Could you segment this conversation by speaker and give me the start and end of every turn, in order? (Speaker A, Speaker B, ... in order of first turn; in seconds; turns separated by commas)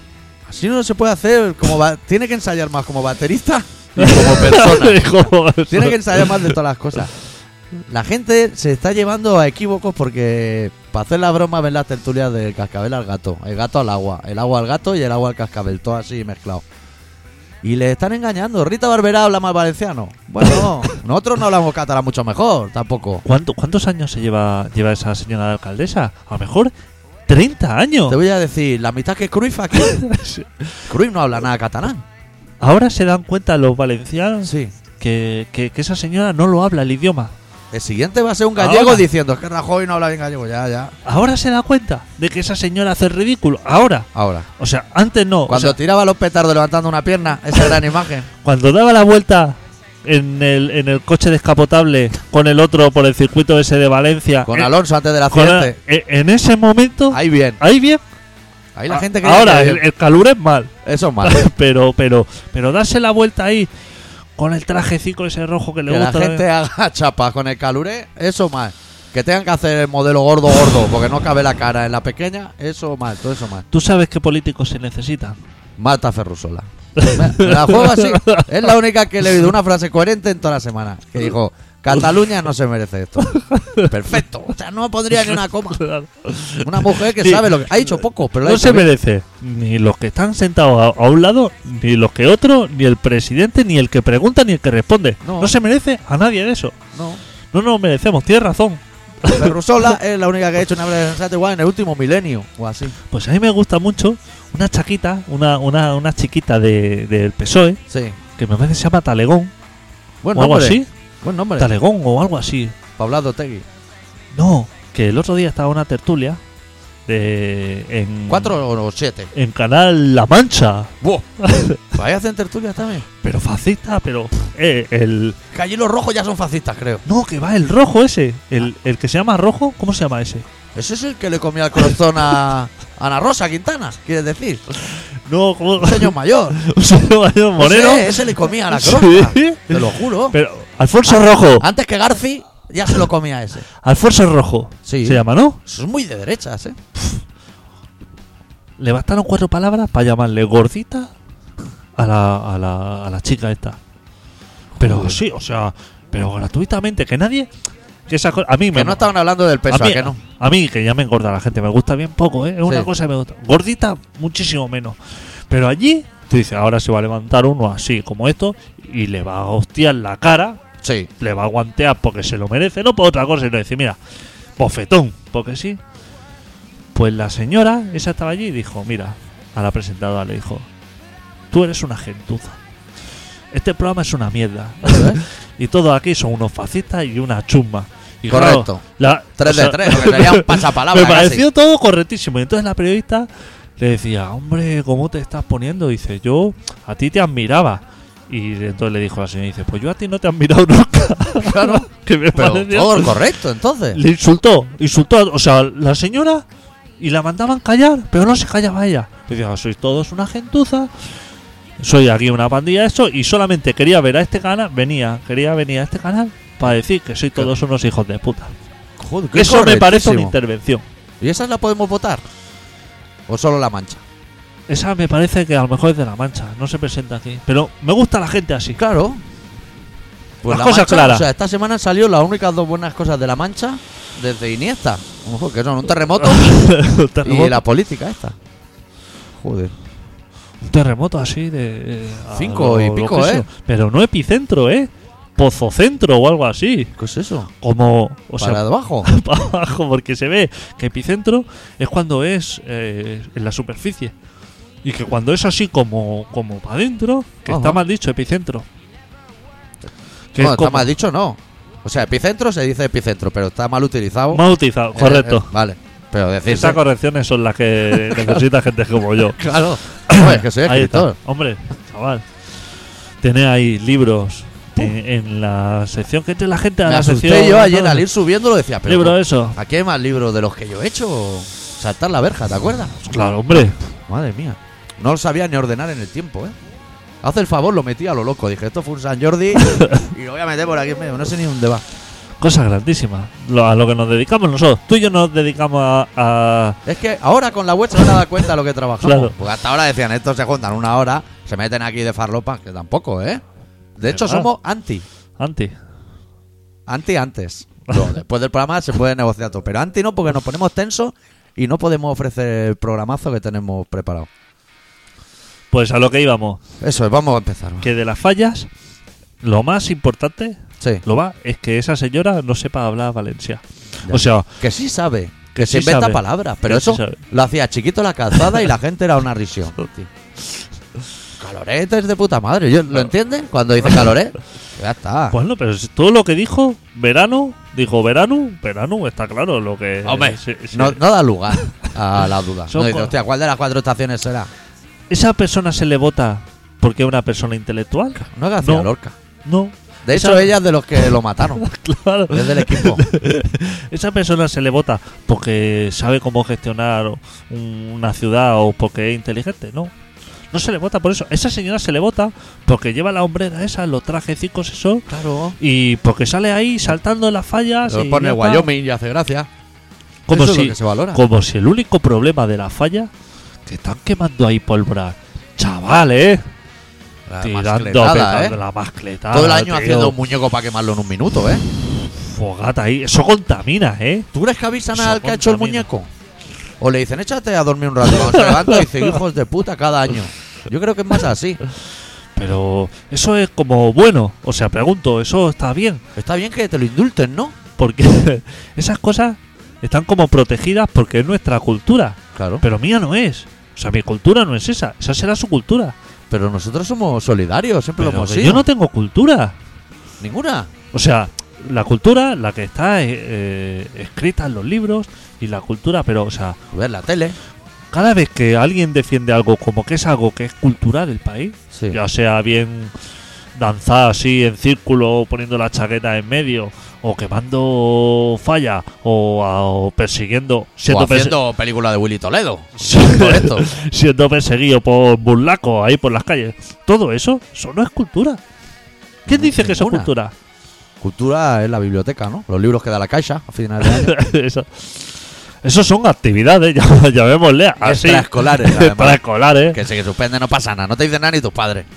Speaker A: 0.5-7.1, Speaker B: 4.0-6.5, Speaker A: 7.9-16.6, Speaker A: 17.6-23.2, Speaker B: 20.4-20.9, Speaker B: 23.2-26.7, Speaker B: 27.3-28.2, Speaker A: 28.1-30.0, Speaker B: 29.8-30.7, Speaker A: 30.9-32.0, Speaker B: 32.6-37.3, Speaker A: 34.4-34.7, Speaker A: 37.7-40.9, Speaker B: 38.6-39.1, Speaker B: 41.0-44.1, Speaker A: 44.1-44.5, Speaker B: 44.6-45.8, Speaker A: 45.5-48.3, Speaker B: 48.4-54.7, Speaker A: 54.5-55.8, Speaker B: 55.3-58.0, Speaker A: 57.1-57.6, Speaker A: 58.8-59.8, Speaker B: 58.9-60.7, Speaker A: 60.9-61.5, Speaker B: 61.2-63.7, Speaker B: 64.4-66.5, Speaker A: 65.9-73.7, Speaker B: 73.7-75.4, Speaker A: 75.8-83.3, Speaker B: 77.0-78.5, Speaker B: 83.2-83.9, Speaker A: 83.8-85.8, Speaker B: 85.2-87.5, Speaker A: 86.6-88.9, Speaker B: 88.4-96.8, Speaker A: 95.2-95.5, Speaker A: 96.9-97.2, Speaker B: 97.5-99.5, Speaker A: 99.3-103.0, Speaker B: 103.1-107.8, Speaker A: 107.9-108.2, Speaker B: 108.4-109.5, Speaker A: 110.2-111.7, Speaker B: 110.3-110.9, Speaker B: 111.6-112.7, Speaker A: 113.0-113.7, Speaker B: 114.3-116.4, Speaker B: 117.1-118.6, Speaker A: 118.3-119.3, Speaker B: 119.3-121.8, Speaker A: 121.0-121.3, Speaker A: 121.9-123.0, Speaker B: 123.2-125.4, Speaker A: 125.5-127.0, Speaker B: 127.1-130.5, Speaker A: 130.8-134.6, Speaker B: 134.9-141.7, Speaker A: 135.8-136.6, Speaker A: 137.6-140.4, Speaker A: 141.5-143.7, Speaker B: 143.8-145.6, Speaker A: 144.9-146.8, Speaker B: 148.8-151.1, Speaker B: 152.0-153.8, Speaker A: 154.8-155.2, Speaker B: 154.8-157.5, Speaker B: 158.1-159.1, Speaker A: 158.7-160.2, Speaker B: 159.7-165.0, Speaker B: 165.5-170.6, Speaker A: 170.8-171.1, Speaker B: 171.2-174.0, Speaker B: 174.6-175.8, Speaker B: 176.9-180.7, Speaker B: 181.5-182.6, Speaker B: 183.5-203.2, Speaker A: 184.8-185.2, Speaker A: 188.3-191.5, Speaker A: 201.4-204.0, Speaker B: 203.9-206.4, Speaker B: 207.0-210.9, Speaker B: 211.8-218.5, Speaker A: 219.0-220.3, Speaker B: 219.3-220.8, Speaker A: 221.2-222.2, Speaker A: 223.3-224.0, Speaker B: 224.7-228.8, Speaker A: 228.8-229.2, Speaker A: 230.4-236.6, Speaker B: 230.5-231.3, Speaker B: 236.2-237.6, Speaker A: 237.2-238.4, Speaker A: 239.3-239.7, Speaker B: 240.6-246.9, Speaker A: 242.3-243.5, Speaker A: 247.0-247.5, Speaker B: 247.6-254.1, Speaker A: 248.4-249.1, Speaker B: 254.8-258.7, Speaker A: 257.5-257.8, Speaker A: 259.8-266.8, Speaker B: 260.3-260.9, Speaker B: 264.3-265.5, Speaker B: 266.5-269.4, Speaker A: 267.9-268.4, Speaker A: 269.4-271.2, Speaker B: 270.1-272.2, Speaker B: 273.2-278.1, Speaker A: 276.9-283.0, Speaker B: 278.9-279.6, Speaker B: 283.0-283.8, Speaker A: 283.5-286.6, Speaker A: 287.2-291.8, Speaker B: 289.6-290.1, Speaker B: 292.4-296.8, Speaker A: 296.9-303.4, Speaker B: 299.0-299.4, Speaker A: 304.0-305.1, Speaker B: 304.1-304.5, Speaker B: 305.4-305.8, Speaker A: 306.9-314.3, Speaker B: 315.7-316.6, Speaker A: 316.8-317.9, Speaker B: 317.8-318.7, Speaker B: 319.4-324.5, Speaker A: 324.1-330.1, Speaker B: 325.5-327.2, Speaker A: 331.4-335.4, Speaker B: 335.3-341.0, Speaker A: 340.1-344.5, Speaker B: 341.5-341.8, Speaker B: 342.7-343.1, Speaker B: 345.1-348.9, Speaker A: 348.2-349.1, Speaker B: 349.4-350.6, Speaker A: 350.1-351.6, Speaker B: 351.6-359.9, Speaker A: 352.3-353.1, Speaker B: 360.5-365.1, Speaker A: 365.1-365.6, Speaker B: 365.6-368.7, Speaker A: 367.9-369.5, Speaker B: 370.3-373.1, Speaker A: 370.3-371.2, Speaker B: 373.7-376.4, Speaker A: 377.3-378.6, Speaker B: 377.4-380.2, Speaker A: 379.3-381.6, Speaker B: 382.1-384.3, Speaker A: 384.3-386.1, Speaker B: 384.9-385.9, Speaker A: 386.8-391.6, Speaker B: 388.4-388.8, Speaker B: 392.4-396.0, Speaker A: 396.2-397.6, Speaker B: 397.8-405.9, Speaker A: 402.4-402.6, Speaker A: 406.3-408.7, Speaker B: 408.0-409.6, Speaker A: 410.2-410.7, Speaker B: 410.9-416.6, Speaker A: 416.7-417.4, Speaker B: 417.9-422.9, Speaker A: 421.7-422.0, Speaker B: 423.6-431.4, Speaker A: 430.9-433.7, Speaker B: 432.8-438.4, Speaker A: 439.3-440.1, Speaker B: 439.3-440.3, Speaker A: 441.0-444.1, Speaker B: 443.8-449.8, Speaker A: 447.8-451.9